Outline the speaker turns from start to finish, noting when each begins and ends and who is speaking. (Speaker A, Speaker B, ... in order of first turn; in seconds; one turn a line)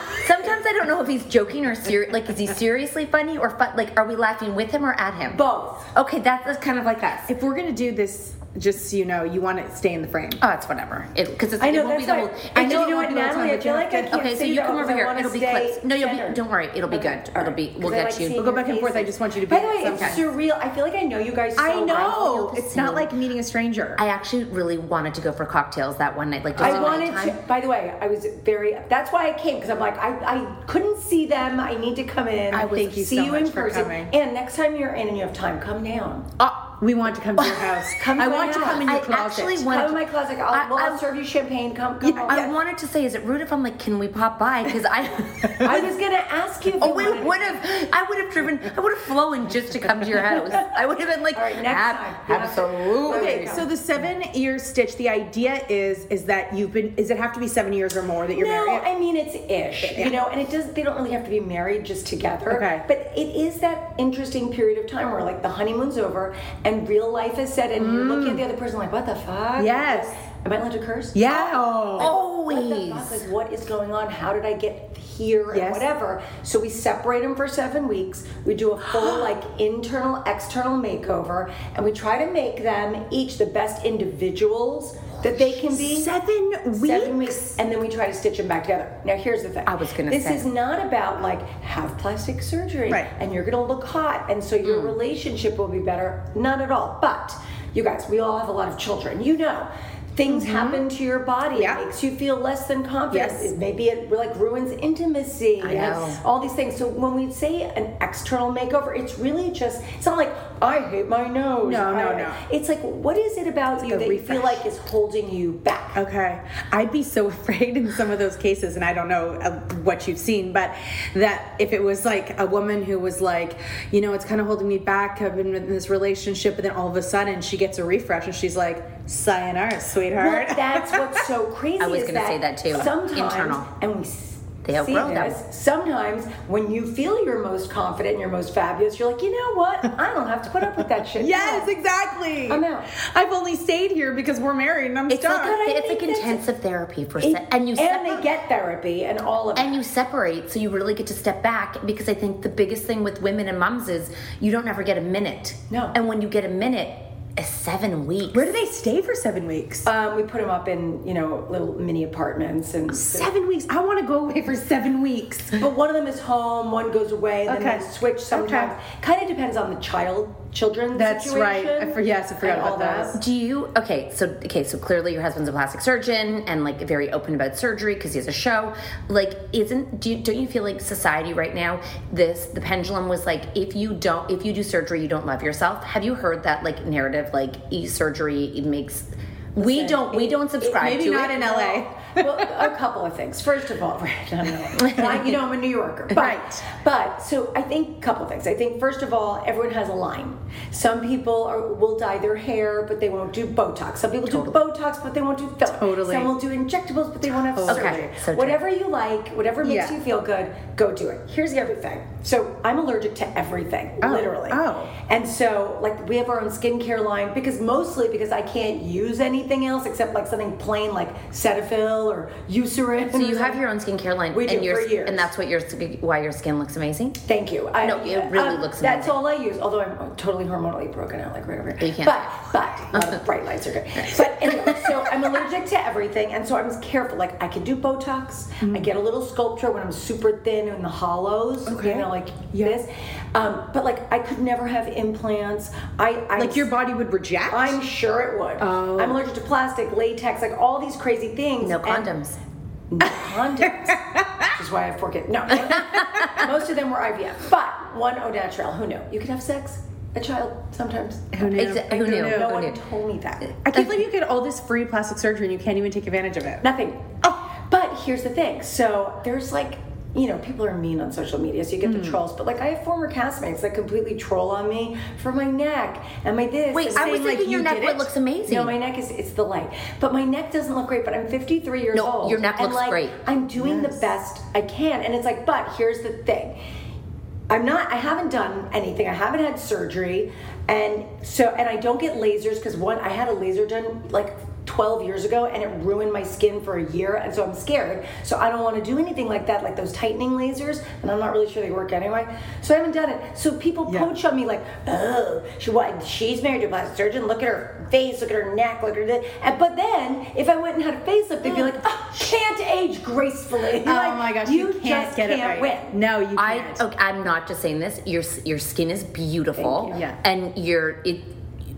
Speaker A: 0.1-5.4
Speaker B: 5.3-5.8
Speaker A: 5.9-7.3
Speaker C: 7.3-10.4
Speaker A: 10.4-12.9
Speaker B: 11.6-22.6
Speaker C: 12.5-14.3
Speaker A: 14.1-18.5
Speaker C: 18.4-20.2
Speaker C: 21.6-24.0
Speaker A: 21.9-23.1
Speaker A: 24.0-27.4
Speaker B: 26.6-36.3
Speaker C: 32.5-34.1
Speaker C: 36.6-39.8
Speaker A: 37.4-37.6
Speaker B: 37.9-39.0
Speaker A: 38.8-41.0
Speaker B: 39.6-42.4
Speaker C: 42.0-42.5
Speaker A: 42.3-45.9
Speaker B: 45.6-47.6
Speaker A: 46.8-53.6
Speaker B: 51.3-53.6
Speaker C: 53.1-58.8
Speaker B: 58.3-86.1
Speaker C: 59.8-60.2
Speaker C: 62.5-62.8
Speaker C: 67.8-68.4
Speaker C: 69.6-70.1
Speaker C: 71.1-72.1
Speaker A: 72.0-73.2
Speaker C: 75.5-75.8
Speaker C: 78.9-79.2
Speaker C: 85.3-87.6
Speaker B: 86.7-116.0
Speaker A: 89.7-90.4
Speaker A: 94.6-94.9
Speaker C: 100.3-100.8
Speaker C: 101.5-101.8
Speaker C: 103.1-103.5
Speaker A: 105.6-106.2
Speaker C: 111.6-112.4
Speaker C: 113.8-114.6
Speaker C: 115.9-131.2
Speaker B: 130.2-141.7
Speaker A: 131.8-133.7
Speaker A: 134.6-135.4
Speaker C: 141.2-145.6
Speaker B: 142.5-142.9
Speaker A: 145.1-148.2
Speaker B: 145.3-146.4
Speaker B: 147.2-149.8
Speaker A: 149.6-158.5
Speaker B: 155.7-155.9
Speaker C: 158.3-159.9
Speaker B: 159.8-163.3
Speaker C: 162.9-165.6
Speaker B: 165.6-173.2
Speaker C: 167.5-168.7
Speaker C: 170.9-173.2
Speaker A: 173.1-191.4
Speaker B: 189.6-223.6
Speaker C: 190.7-192.6
Speaker A: 194.8-195.2
Speaker C: 196.1-196.6
Speaker A: 204.2-204.6
Speaker C: 205.7-206.3
Speaker C: 207.5-208.1
Speaker A: 207.7-208.6
Speaker C: 209.6-210.0
Speaker C: 214.0-214.9
Speaker A: 223.1-227.2
Speaker B: 224.3-225.3
Speaker B: 227.2-246.7
Speaker A: 227.8-229.1
Speaker A: 231.8-233.2
Speaker C: 238.6-238.9
Speaker C: 241.7-242.8
Speaker C: 246.3-247.8
Speaker B: 247.5-252.1
Speaker C: 248.6-249.2
Speaker A: 251.6-252.4
Speaker B: 252.9-254.0
Speaker C: 253.9-254.5
Speaker B: 254.6-263.6
Speaker C: 261.3-262.6
Speaker A: 261.5-262.8
Speaker C: 263.6-266.6
Speaker A: 263.7-264.0
Speaker B: 266.6-277.3
Speaker C: 271.8-272.2
Speaker A: 276.7-278.8
Speaker C: 276.9-278.1
Speaker B: 278.5-286.6
Speaker A: 281.9-283.2
Speaker B: 287.5-315.9
Speaker C: 303.9-304.1
Speaker C: 311.5-311.7
Speaker C: 313.7-316.8
Speaker A: 316.3-321.3
Speaker B: 319.6-320.1
Speaker C: 319.9-320.2